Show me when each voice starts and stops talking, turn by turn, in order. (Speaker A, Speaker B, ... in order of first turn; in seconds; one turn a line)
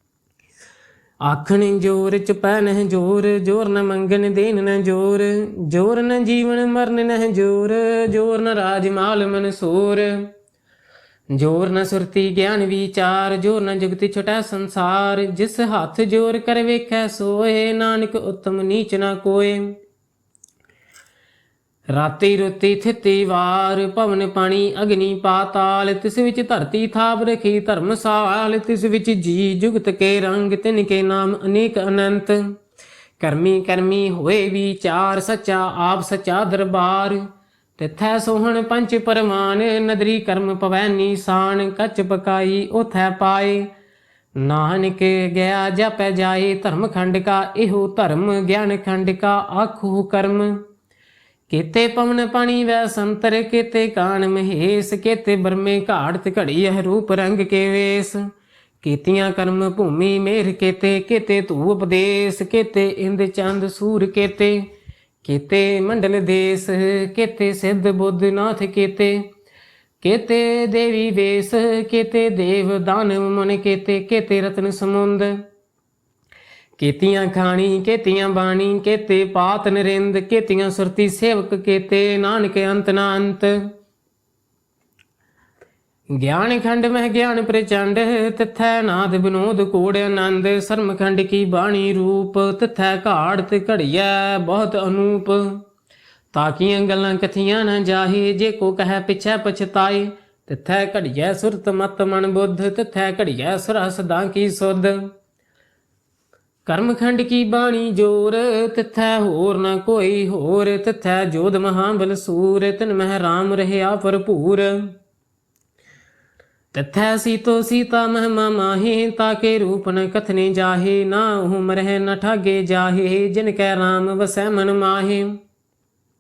Speaker A: 1.2-10.3
Speaker A: 11.3-19.8
Speaker A: 21.9-32.5
Speaker A: 33.2-37.2
Speaker A: 37.8-43.7
Speaker A: 44.4-50.6
Speaker A: 51.5-58.2
Speaker A: 58.8-64.7
Speaker A: 65.2-69.3
Speaker A: 70.0-75.4
Speaker A: 76.8-83.6
Speaker A: 86.1-95.6
Speaker A: 96.3-105.1
Speaker A: 106.7-114.9
Speaker A: 116.7-125.4